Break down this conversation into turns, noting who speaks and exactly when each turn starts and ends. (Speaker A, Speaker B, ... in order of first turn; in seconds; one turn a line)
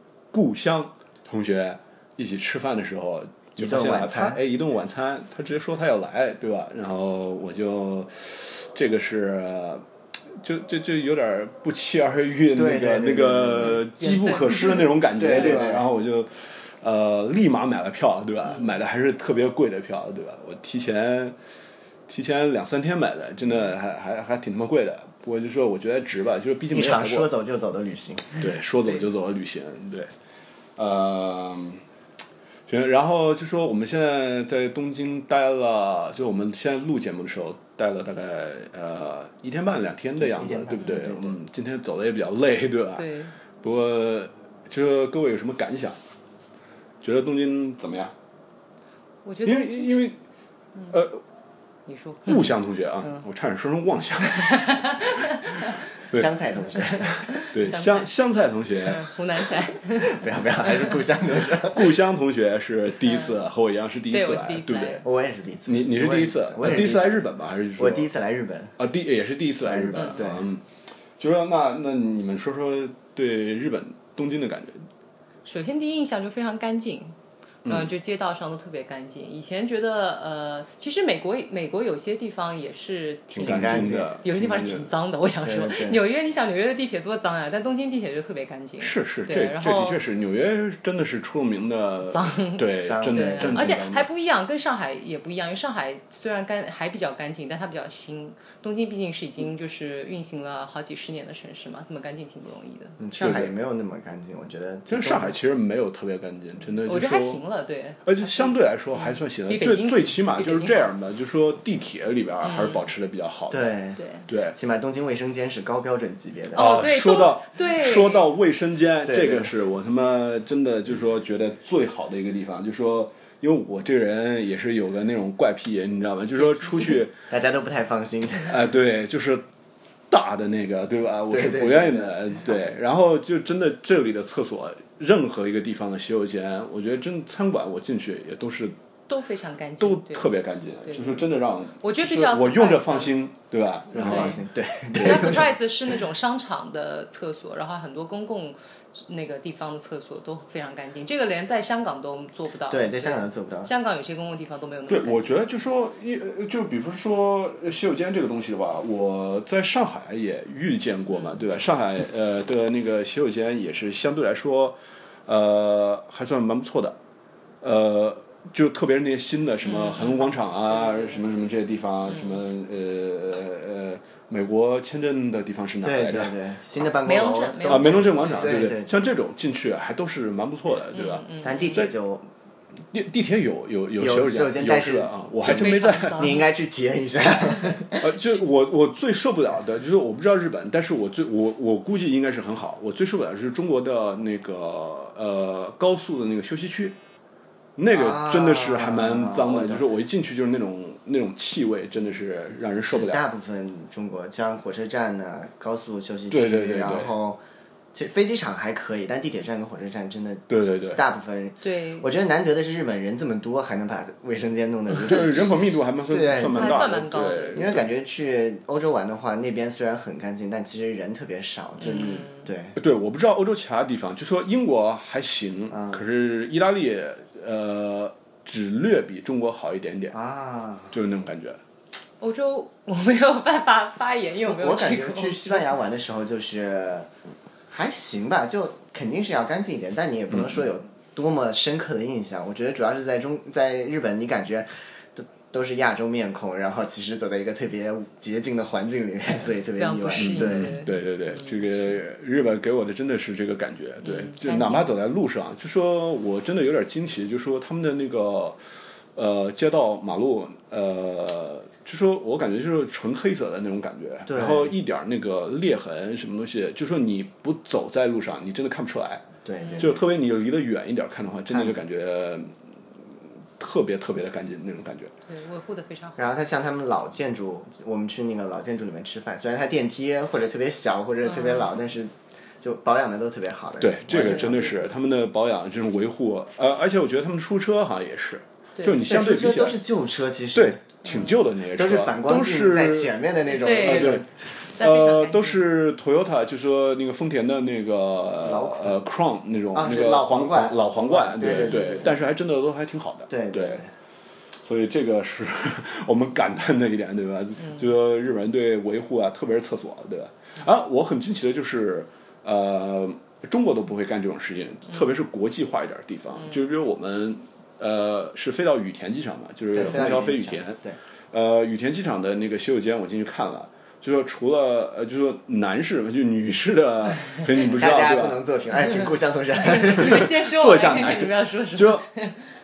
Speaker A: 0.3-9.8
Speaker B: 3.6-4.4
Speaker A: 10.4-21.4
Speaker B: 12.6-13.8
Speaker C: 14.0-15.6
Speaker B: 15.1-15.8
Speaker A: 22.1-27.3
Speaker B: 26.7-28.4
Speaker A: 28.4-30.1
Speaker A: 30.8-31.8
Speaker A: 32.7-43.1
Speaker B: 40.2-41.4
Speaker C: 43.0-43.3
Speaker A: 43.6-46.0
Speaker A: 47.0-48.1
Speaker C: 49.2-50.0
Speaker A: 49.4-50.2
Speaker A: 50.9-51.2
Speaker C: 51.9-52.5
Speaker A: 52.2-56.3
Speaker C: 54.3-55.8
Speaker B: 56.1-57.2
Speaker A: 56.8-59.1
Speaker C: 56.8-58.1
Speaker C: 58.8-61.0
Speaker B: 60.0-62.0
Speaker A: 61.4-65.0
Speaker C: 64.1-65.0
Speaker B: 65.0-68.8
Speaker A: 65.7-68.1
Speaker A: 68.8-70.6
Speaker B: 69.6-70.5
Speaker A: 71.2-74.8
Speaker C: 75.4-77.1
Speaker A: 77.6-77.9
Speaker C: 77.7-90.0
Speaker A: 83.3-84.9
Speaker B: 83.3-84.1
Speaker B: 85.4-86.0
Speaker A: 88.8-94.0
Speaker C: 92.1-103.0
Speaker B: 92.8-94.1
Speaker B: 103.0-105.4
Speaker A: 103.2-103.5
Speaker A: 104.9-107.4
Speaker C: 106.8-110.9
Speaker A: 108.0-114.6
Speaker C: 112.4-112.9
Speaker B: 113.5-114.0
Speaker C: 114.0-114.2
Speaker B: 114.5-116.8
Speaker C: 116.5-118.2
Speaker A: 116.5-127.1
Speaker B: 119.0-119.5
Speaker C: 126.3-127.0
Speaker B: 127.3-128.6
Speaker A: 128.5-129.4
Speaker A: 130.1-138.8
Speaker B: 131.3-132.1
Speaker C: 139.1-140.3
Speaker A: 139.8-144.4
Speaker C: 140.8-143.1
Speaker B: 143.9-145.6
Speaker C: 144.0-144.4
Speaker C: 144.9-155.4
Speaker B: 152.7-153.7
Speaker A: 154.9-167.0
Speaker A: 167.6-176.3
Speaker C: 169.7-171.2
Speaker B: 175.8-178.9
Speaker C: 177.0-178.7
Speaker A: 177.6-181.9
Speaker C: 180.9-181.8
Speaker B: 181.4-182.3
Speaker A: 182.9-186.2
Speaker B: 184.0-188.0
Speaker C: 185.4-186.4
Speaker A: 187.9-196.9
Speaker A: 197.8-203.2
Speaker B: 197.9-199.9
Speaker B: 202.9-207.4
Speaker A: 206.3-207.1
Speaker B: 207.9-216.8
Speaker A: 210.5-211.0
Speaker C: 211.6-212.1
Speaker A: 214.9-217.9
Speaker C: 216.4-217.7
Speaker B: 217.5-222.8
Speaker C: 221.8-222.4
Speaker A: 222.8-230.2
Speaker B: 225.7-226.0
Speaker B: 230.1-230.9
Speaker A: 230.9-231.6
Speaker C: 232.2-235.7
Speaker B: 234.4-237.1
Speaker B: 237.7-250.8
Speaker C: 249.8-251.8
Speaker A: 250.2-258.6
Speaker C: 254.0-254.9
Speaker A: 259.1-269.2
Speaker B: 264.3-264.7
Speaker B: 269.4-270.0
Speaker A: 269.8-272.5
Speaker B: 271.5-271.8
Speaker A: 273.6-275.1
Speaker C: 275.2-276.2
Speaker B: 276.2-284.7
Speaker C: 281.3-281.7
Speaker A: 283.8-289.8
Speaker C: 284.1-284.7
Speaker C: 288.8-289.0
Speaker B: 289.0-294.3
Speaker A: 290.5-293.1
Speaker C: 293.6-295.7
Speaker A: 293.8-294.3
Speaker A: 294.8-303.8
Speaker B: 298.4-299.0
Speaker B: 299.7-302.1
Speaker C: 301.4-302.1
Speaker B: 303.3-303.9
Speaker A: 304.6-320.8
Speaker B: 319.7-321.0
Speaker A: 321.3-328.4
Speaker B: 327.6-330.4
Speaker C: 329.6-332.4
Speaker A: 330.0-332.0